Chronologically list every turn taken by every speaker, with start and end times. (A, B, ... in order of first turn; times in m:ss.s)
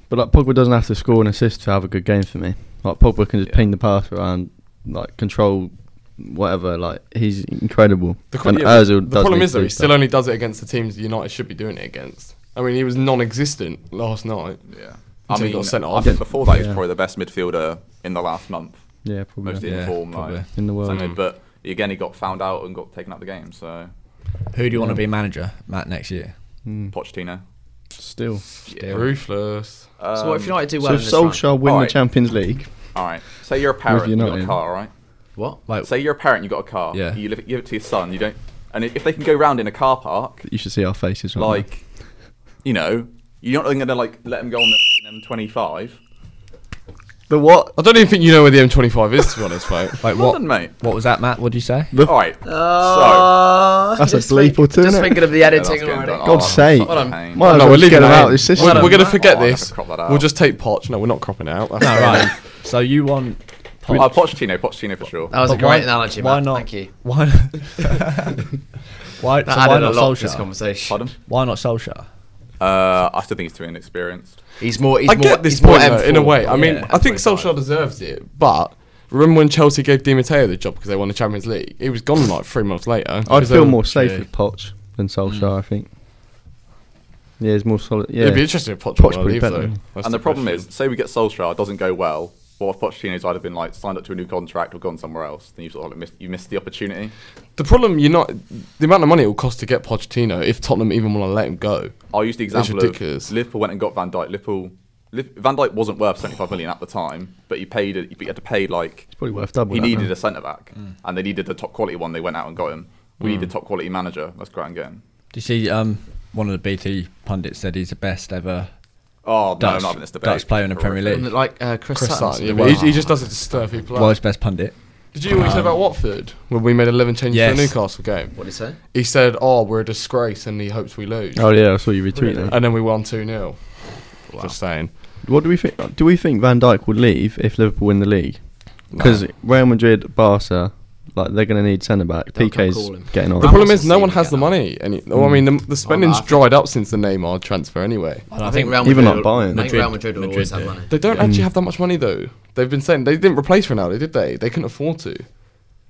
0:00.1-0:10.0 A
0:08.3-0:14.6 B
0:14.7-0:18.9 C
0:15.3-0:16.3 B
0:16.0-0:16.8 A
0:19.0-0:20.0 A
0:19.4-0:23.9 C
0:19.6-0:20.5 D
0:20.5-0:21.1 A
0:20.9-0:21.2 B
0:24.5-0:26.3 D
0:24.7-0:25.0 A
0:26.6-0:26.9 A
0:26.9-0:27.4 C
0:28.0-0:28.4 A
0:28.7-0:29.1 C
0:28.7-0:29.1 D
0:28.9-0:29.9 B
0:30.0-0:30.6 C
0:30.1-0:31.5 E
0:30.8-0:32.7 A
0:31.6-0:32.0 C
0:32.9-0:34.9 C
0:33.8-0:34.6 A
0:35.8-0:40.4 C
0:36.9-0:37.2 D
0:40.4-0:41.6 A
0:41.4-0:41.8 C
0:42.6-0:46.0 C
0:47.3-0:47.7 A
0:47.8-0:50.0 B
0:50.0-0:51.9 D
0:50.1-0:50.7 C
0:51.9-0:52.2 A
0:52.0-0:53.3 C
0:52.4-0:59.2 E
0:54.0-0:55.2 A
0:55.4-0:57.5 C
0:56.2-0:59.0 A
0:57.4-1:02.4 B
0:58.9-1:00.3 C
1:01.8-1:04.3 D
1:03.9-1:05.3 C
1:05.3-1:06.9 E
1:05.3-1:08.4 D
1:09.1-1:10.5 D
1:09.4-1:11.1 E
1:10.9-1:11.1 C
1:11.2-1:12.0 D
1:12.6-1:14.4 C
1:14.6-1:17.6 E
1:15.1-1:23.8 B
1:16.5-1:16.9 D
1:23.3-1:25.9 A
1:23.3-1:24.2 D
1:25.2-1:25.5 D
1:27.4-1:29.8 A
1:28.2-1:30.7 B
1:30.0-1:37.1 C
1:37.6-1:41.9 B
1:42.1-1:49.1 C
1:42.5-1:43.3 B
1:49.1-1:50.1 A
1:49.7-1:55.0 C
1:53.2-1:53.5 B
1:55.3-1:58.7 D
1:59.2-2:01.3 C
1:59.6-2:01.3 D
2:01.1-2:03.8 E
2:02.0-2:04.2 B
2:02.5-2:03.0 D
2:03.9-2:05.8 D
2:05.1-2:11.5 B
2:07.3-2:07.8 D
2:08.3-2:08.8 E
2:11.3-2:12.6 A
2:12.1-2:14.9 B
2:15.2-2:23.6 A
2:18.9-2:19.2 B
2:22.3-2:24.6 E
2:23.4-2:28.3 B
2:25.1-2:25.5 A
2:25.8-2:26.4 E
2:28.3-2:30.8 D
2:28.4-2:31.3 E
2:28.8-2:29.8 A
2:30.9-2:35.2 B
2:31.2-2:31.5 A